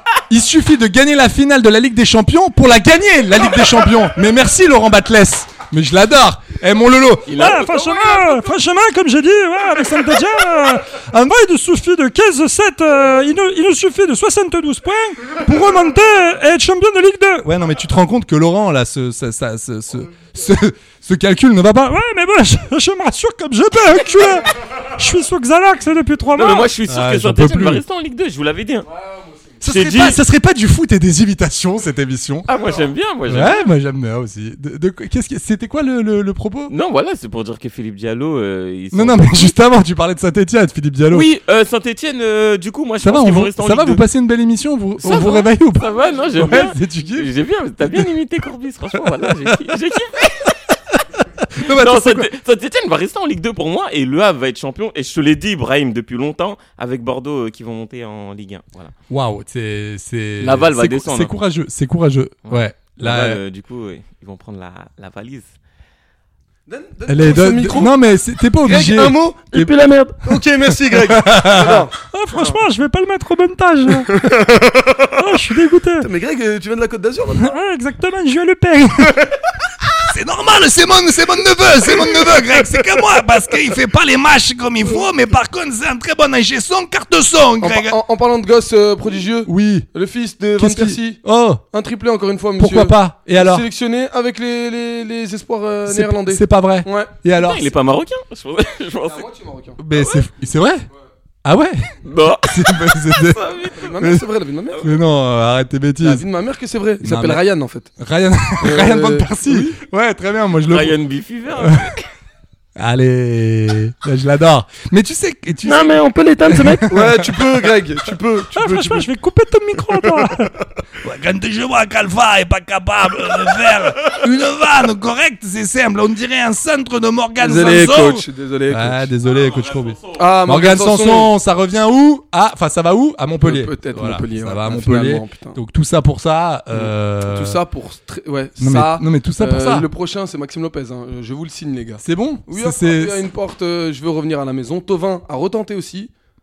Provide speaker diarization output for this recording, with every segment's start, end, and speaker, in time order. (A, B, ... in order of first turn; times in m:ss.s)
0:00.3-0:07.4 A
0:07.3-0:08.5 B
0:07.4-0:17.5 C
0:17.4-0:22.0 A
0:21.9-0:26.7 C
0:26.4-0:28.9 B
0:26.9-0:27.8 A
0:28.9-0:29.5 D
0:29.6-0:32.5 A
0:29.7-0:30.2 B
0:32.5-0:33.7 B
0:33.3-0:36.7 A
0:36.7-0:39.6 B
0:38.9-0:41.3 A
0:41.1-0:44.0 B
0:43.0-0:47.3 A
0:45.0-0:50.5 B
0:49.0-0:49.6 A
0:51.2-0:52.3 A
0:51.6-0:58.9 B
0:59.1-1:03.4 A
1:00.4-1:01.4 B
1:02.5-1:05.5 B
1:06.7-1:08.0 D
1:07.1-1:09.8 A
1:08.6-1:12.6 D
1:10.3-1:11.8 A
1:12.1-1:14.2 C
1:14.1-1:15.1 D
1:15.2-1:16.1 C
1:16.0-1:17.6 D
1:17.4-1:19.2 C
1:20.1-1:28.0 A
1:27.6-1:37.1 D
1:29.5-1:29.9 A
1:30.6-1:31.6 A
1:32.6-1:33.6 A
1:35.9-1:37.7 A
1:37.4-1:39.3 B
1:39.0-1:39.8 D
1:39.8-1:40.9 A
1:39.9-1:40.3 B
1:41.4-1:44.2 A
1:42.0-1:44.0 B
1:43.8-1:44.8 D
1:44.8-1:46.2 A
1:46.0-1:47.9 D
1:47.0-1:47.4 A
1:48.0-1:51.0 A
1:48.6-1:49.8 D
1:50.7-1:52.1 B
1:51.6-1:51.9 A
1:52.8-1:57.6 A
1:55.6-1:56.9 B
1:56.9-1:59.1 D
1:58.6-2:00.5 C
1:58.7-2:00.3 A
2:01.0-2:17.6 A
2:07.4-2:09.1 D
2:09.2-2:10.3 B
2:10.2-2:11.3 D
2:13.4-2:15.6 D
2:16.7-2:26.1 D
2:18.6-2:19.9 A
2:22.0-2:23.2 A